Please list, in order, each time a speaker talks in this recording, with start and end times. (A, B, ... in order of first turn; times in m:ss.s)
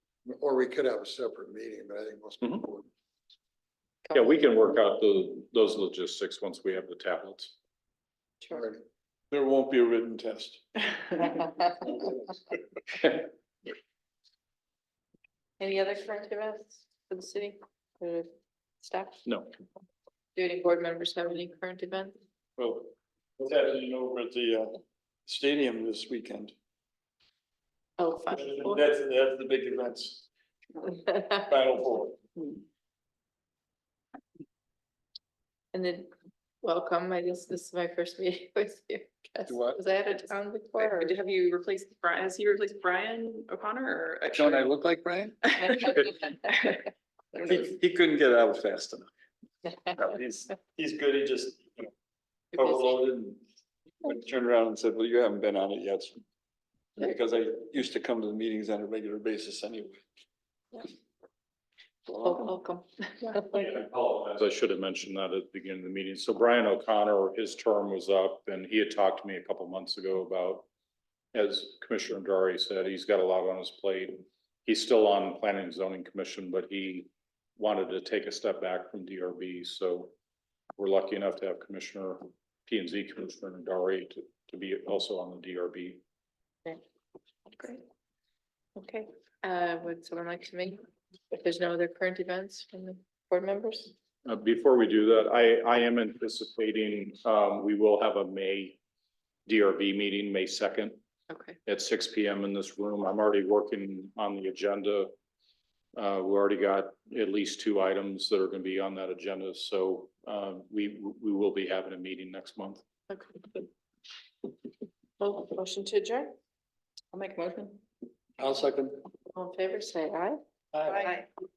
0:00.2-0:02.9 A
0:04.1-0:04.7 B
0:04.1-0:07.5 C
0:09.3-0:11.4 D
0:15.6-0:18.3 B
0:18.8-0:19.2 B
0:20.4-0:22.2 B
0:22.6-0:26.5 D
0:28.0-0:28.8 B
0:28.3-0:30.2 D
0:31.4-0:32.2 D
0:35.7-0:36.1 B
0:36.6-0:41.2 B
0:39.5-0:39.8 D
0:40.9-0:44.6 E
0:44.3-0:45.4 D
0:47.4-0:49.1 D
0:49.9-0:51.9 D
0:52.5-0:53.4 D
0:54.0-0:56.2 D
0:57.0-1:00.0 D
1:02.1-1:03.8 B
1:02.2-1:02.4 D
1:03.5-1:10.7 C
1:11.3-1:20.1 C
1:20.8-1:26.0 C
1:27.6-1:27.8 B
1:28.8-1:33.9 B
1:34.2-1:38.8 C
1:39.4-1:41.0 C
1:41.3-1:41.6 B
1:41.6-1:45.1 C
1:46.0-1:52.8 C
1:53.1-1:53.6 B
1:55.2-1:56.4 B
1:58.4-1:59.0 D
1:59.3-2:01.2 B
2:00.7-2:01.1 D